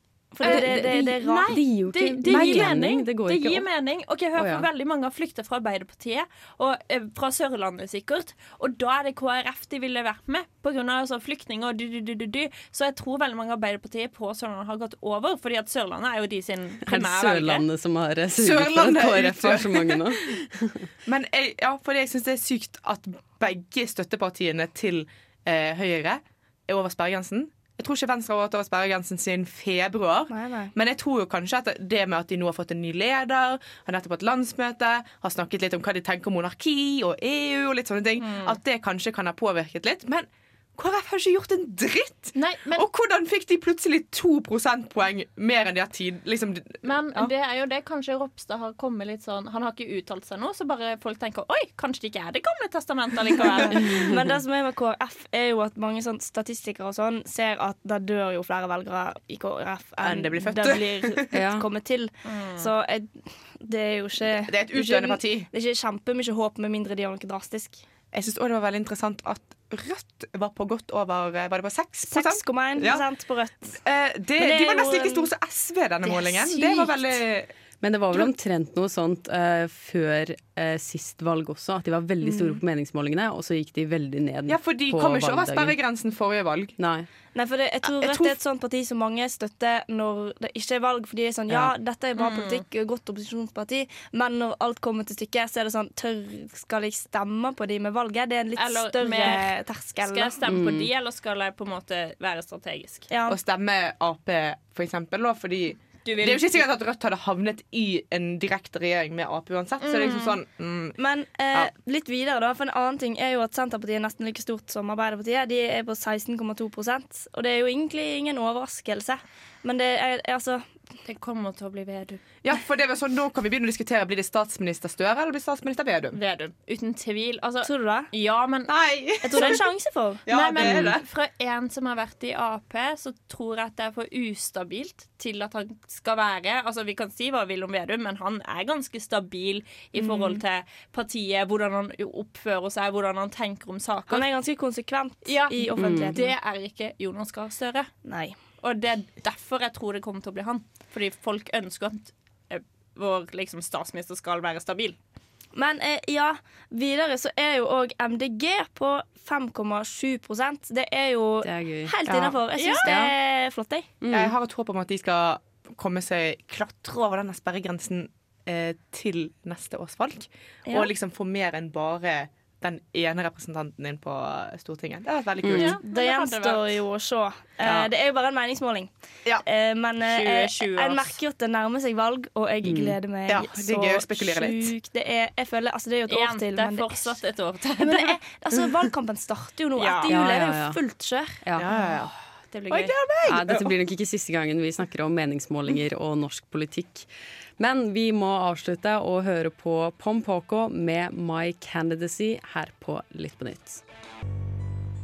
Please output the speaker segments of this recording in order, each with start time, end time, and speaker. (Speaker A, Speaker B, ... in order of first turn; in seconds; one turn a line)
Speaker A: 0.3-1.6
Speaker B: 0.4-3.7
Speaker C: 0.4-17.6
Speaker D: 2.3-2.8
Speaker B: 4.3-4.7
Speaker B: 16.9-20.9
Speaker D: 18.4-20.2
Speaker D: 21.1-47.3
Speaker A: 30.3-30.7
Speaker C: 38.2-38.6
Speaker C: 42.3-42.9
Speaker C: 46.8-54.1
Speaker A: 53.7-67.8
Speaker D: 60.0-61.4
Speaker B: 61.3-61.6
Speaker C: 62.2-62.7
Speaker D: 64.4-65.5
Speaker D: 68.1-73.0
Speaker A: 72.1-73.8
Speaker D: 73.7-77.5
Speaker A: 74.4-75.3
Speaker A: 76.0-77.1
Speaker B: 77.8-85.8
Speaker A: 82.2-82.6
Speaker D: 84.5-86.8
Speaker B: 86.8-87.1
Speaker A: 87.3-100.3
Speaker D: 87.8-88.3
Speaker C: 92.2-92.6
Speaker C: 98.6-103.1
Speaker B: 100.4-100.9
Speaker A: 103.1-103.4
Speaker D: 103.3-111.0
Speaker C: 106.0-106.6
Speaker C: 109.8-110.4
Speaker A: 111.0-120.7
Speaker C: 121.0-122.2
Speaker D: 122.4-126.2
Speaker C: 126.1-128.7
Speaker A: 127.6-128.1
Speaker D: 128.7-129.6
Speaker A: 129.2-130.2
Speaker D: 130.2-131.0
Speaker C: 130.3-144.3
Speaker B: 130.6-131.0
Speaker A: 139.9-140.4
Speaker A: 144.1-146.3
Speaker C: 145.2-147.9
Speaker B: 145.8-146.2
Speaker A: 148.1-148.3
Speaker C: 148.6-155.0
Speaker A: 155.5-163.9
Speaker B: 161.4-161.9
Speaker D: 162.1-162.4
Speaker C: 162.6-162.9
Speaker B: 162.8-163.1
Speaker B: 164.0-164.3
Speaker D: 164.1-175.8
Speaker B: 175.4-175.8
Speaker C: 175.5-176.8
Speaker A: 175.8-178.9
Speaker D: 177.6-177.9
Speaker A: 179.4-187.2
Speaker C: 180.0-181.2
Speaker B: 182.6-183.0
Speaker D: 183.3-184.7
Speaker C: 186.1-188.2
Speaker A: 187.8-191.4
Speaker C: 189.8-190.1
Speaker B: 190.1-190.8
Speaker D: 191.6-192.1
Speaker C: 191.7-192.9
Speaker D: 192.7-193.7
Speaker B: 193.2-203.8